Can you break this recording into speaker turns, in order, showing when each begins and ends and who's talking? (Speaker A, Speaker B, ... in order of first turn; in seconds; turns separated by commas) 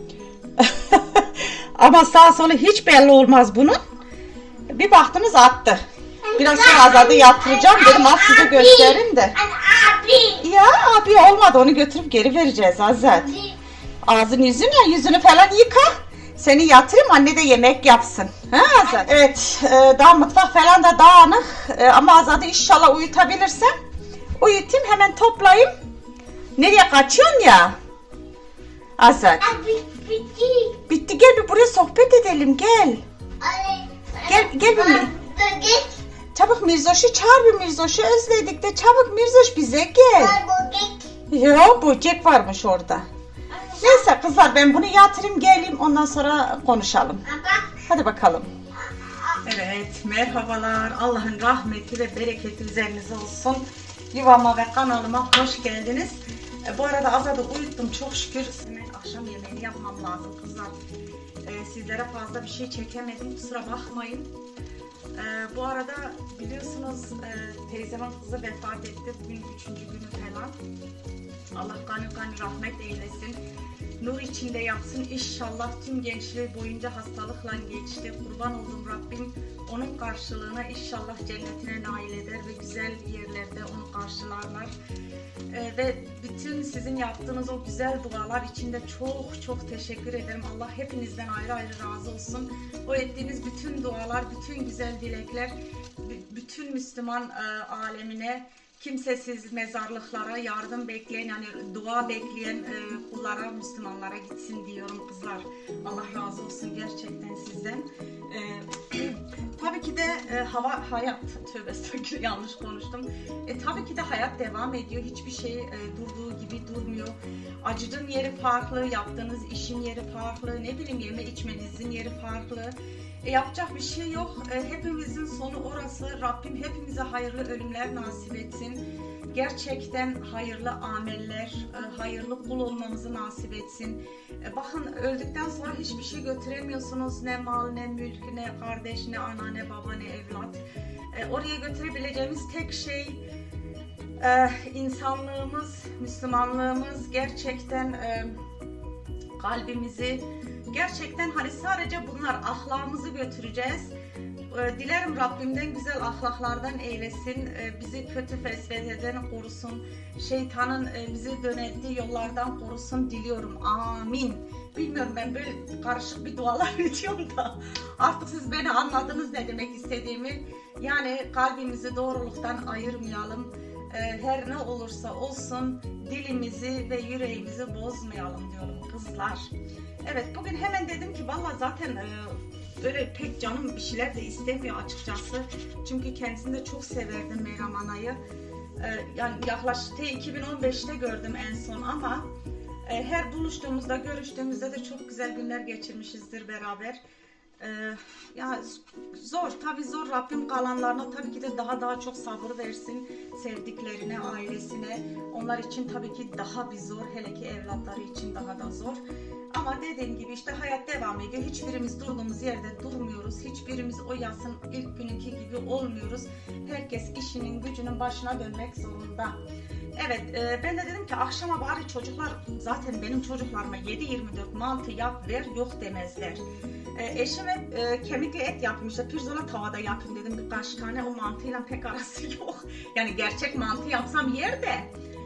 Speaker A: 0.6-3.8, Speaker A: 4.7-5.8, Speaker A: 6.3-9.4, Speaker B: 6.4-10.4, Speaker A: 10.4-13.4, Speaker A: 14.1-23.7, Speaker A: 24.4-25.7, Speaker A: 26.6-27.8, Speaker A: 29.0-29.6, Speaker B: 29.4-30.8, Speaker A: 30.9-33.0, Speaker B: 33.4-36.0, Speaker A: 34.2-35.1, Speaker A: 36.3-40.4, Speaker B: 40.1-41.1, Speaker A: 41.3-43.0, Speaker B: 43.5-44.0, Speaker A: 43.7-48.5, Speaker B: 47.3-47.8, Speaker A: 49.3-60.8, Speaker A: 61.4-64.3, Speaker A: 65.1-70.5, Speaker A: 71.5-73.4, Speaker A: 74.0-84.7, Speaker A: 85.5-143.2, Speaker A: 144.2-148.4, Speaker A: 149.4-153.9, Speaker A: 154.5-179.5, Speaker A: 180.0-188.2, Speaker A: 188.8-192.2, Speaker A: 192.9-197.0, Speaker A: 197.6-209.0, Speaker A: 209.5-219.3, Speaker A: 220.0-226.4, Speaker A: 226.9-234.9